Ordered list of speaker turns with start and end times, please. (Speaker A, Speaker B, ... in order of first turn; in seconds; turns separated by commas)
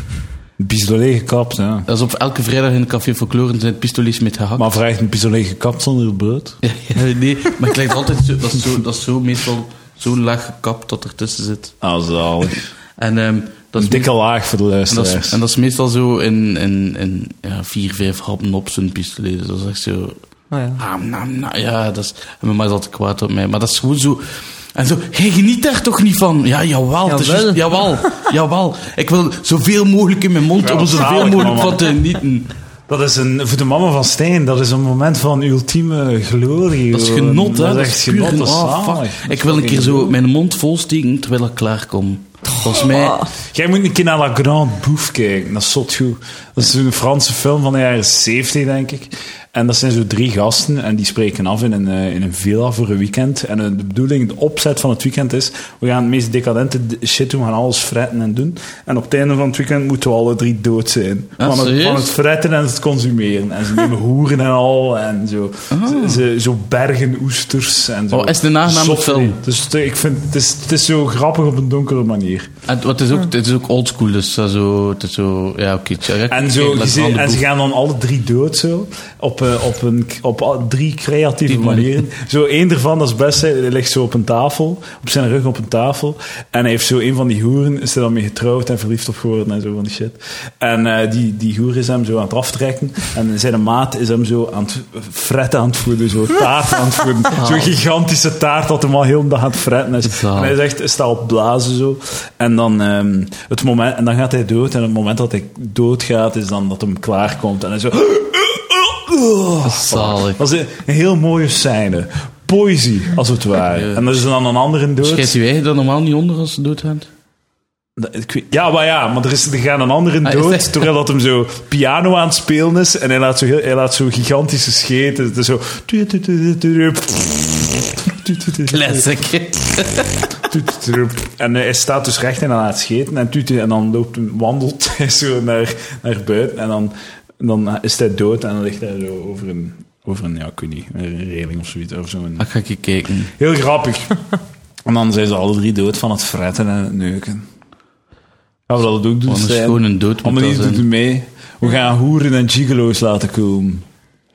Speaker A: 0.6-1.9, Speaker B: 1.9-4.7, Speaker A: 4.5-6.6, Speaker B: 6.6-11.7, Speaker A: 11.8-12.7, Speaker B: 13.0-14.1, Speaker A: 13.8-15.4, Speaker B: 14.9-20.2, Speaker C: 20.5-20.8, Speaker B: 20.8-32.5, Speaker C: 27.1-28.3, Speaker A: 30.6-31.9, Speaker A: 32.9-40.1, Speaker B: 36.9-43.2, Speaker C: 42.7-43.3, Speaker A: 43.5-72.5, Speaker B: 61.4-62.1, Speaker B: 65.7-66.2, Speaker B: 68.1-69.4, Speaker B: 72.7-77.4, Speaker A: 76.3-115.3, Speaker B: 81.5-82.0, Speaker B: 97.3-97.8, Speaker B: 100.0-100.6, Speaker B: 109.6-110.4, Speaker B: 113.7-114.0, Speaker B: 115.0-117.1, Speaker A: 118.0-129.1, Speaker B: 120.2-120.8, Speaker B: 128.7-130.3, Speaker A: 130.5-142.5, Speaker B: 142.4-143.3, Speaker A: 143.4-144.1, Speaker A: 144.8-147.5, Speaker A: 148.7-153.8, Speaker B: 149.3-150.8